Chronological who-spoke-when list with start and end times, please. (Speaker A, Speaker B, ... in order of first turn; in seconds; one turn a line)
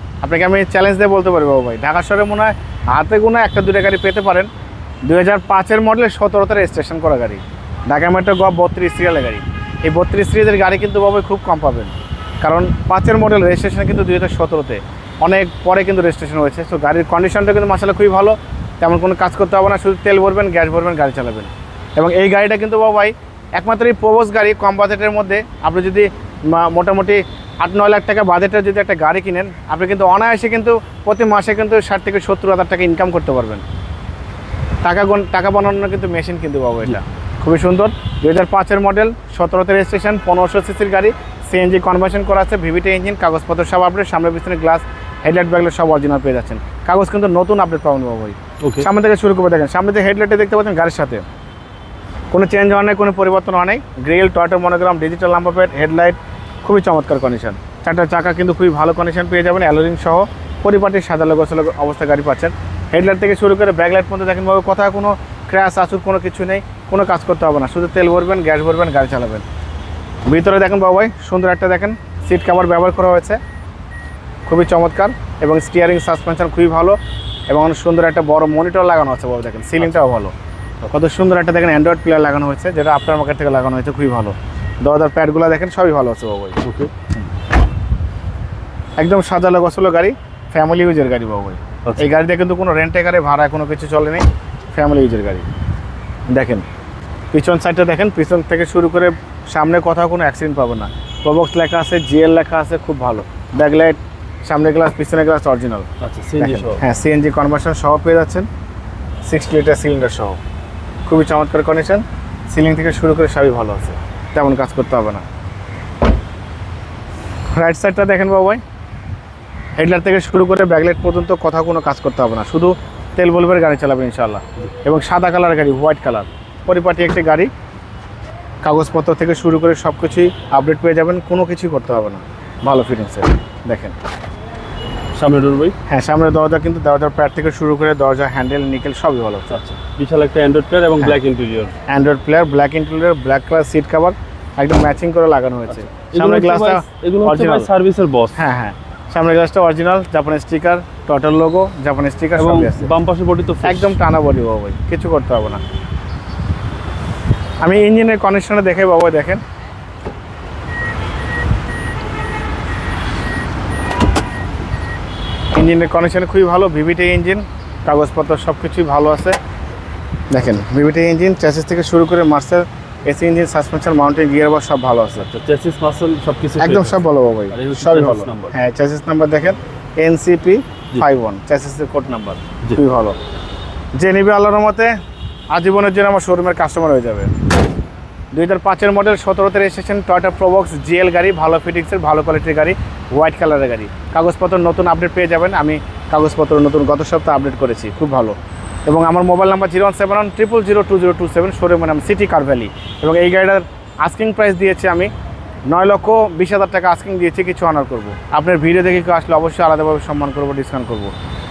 Speaker A: 0.2-4.5
Speaker A: 5.0-33.6
Speaker A: 34.8-51.2
Speaker B: 48.6-48.9
Speaker A: 52.3-69.5
Speaker A: 70.3-73.4
Speaker A: 74.5-77.0
Speaker A: 77.5-80.3
Speaker A: 80.8-86.6
Speaker B: 86.6-86.9
Speaker A: 89.0-95.5
Speaker A: 96.3-96.7
Speaker A: 97.3-108.5
Speaker B: 106.0-106.8
Speaker A: 109.2-110.4
Speaker A: 111.1-115.2
Speaker A: 117.5-118.6
Speaker A: 119.8-127.5
Speaker A: 128.6-134.0
Speaker B: 135.2-135.8
Speaker A: 135.9-139.6
Speaker B: 139.5-141.7
Speaker A: 141.9-147.7
Speaker B: 145.7-148.4
Speaker A: 148.4-152.9
Speaker B: 152.4-153.9
Speaker A: 153.6-155.6
Speaker A: 157.6-159.4
Speaker A: 165.5-169.4
Speaker A: 170.3-175.3
Speaker B: 175.2-178.5
Speaker A: 176.6-183.2
Speaker A: 184.0-184.9
Speaker A: 185.5-187.3
Speaker A: 188.3-205.1
Speaker A: 205.7-211.1